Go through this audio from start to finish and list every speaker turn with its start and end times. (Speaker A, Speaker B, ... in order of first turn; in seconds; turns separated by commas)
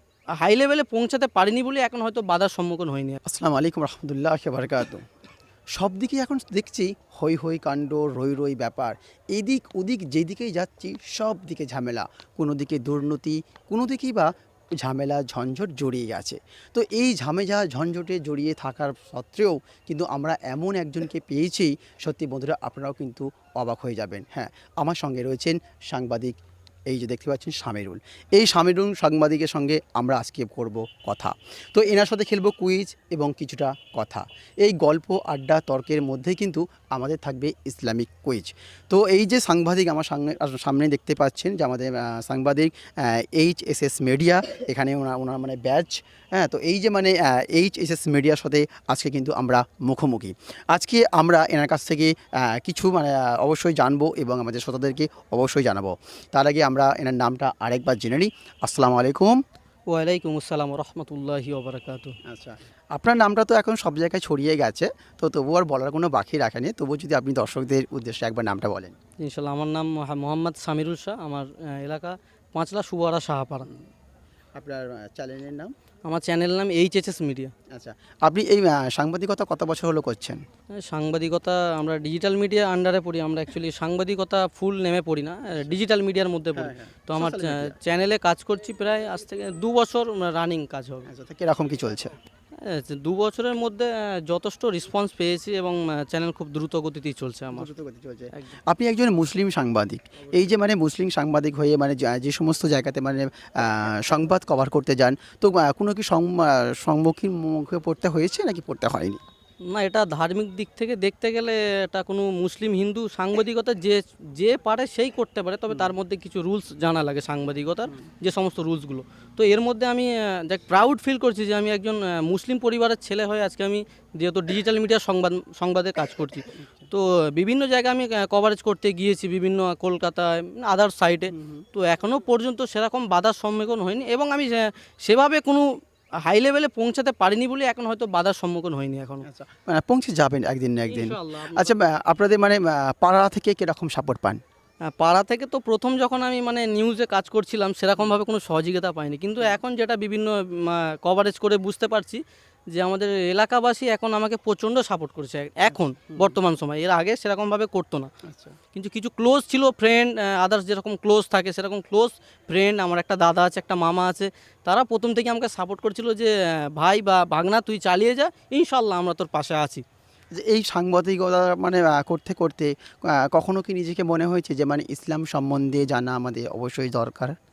Speaker A: 0.4-3.2, Speaker B: 3.3-5.0, Speaker B: 5.8-26.4, Speaker B: 26.9-59.4, Speaker A: 59.9-62.1, Speaker B: 62.3-69.0, Speaker A: 69.2-73.7, Speaker B: 74.6-75.7, Speaker A: 76.1-77.5, Speaker B: 77.7-80.4, Speaker A: 80.8-91.1, Speaker B: 86.6-87.8, Speaker B: 91.1-92.1, Speaker A: 92.6-97.7, Speaker B: 97.5-109.2, Speaker A: 109.7-135.7, Speaker B: 115.7-116.0, Speaker B: 126.5-126.9, Speaker B: 131.3-131.7, Speaker A: 136.2-139.2, Speaker B: 139.2-144.4, Speaker A: 140.9-141.8, Speaker A: 144.9-152.2, Speaker A: 152.7-158.1, Speaker B: 155.7-156.4, Speaker B: 158.2-158.6, Speaker A: 158.7-169.8, Speaker B: 170.3-177.4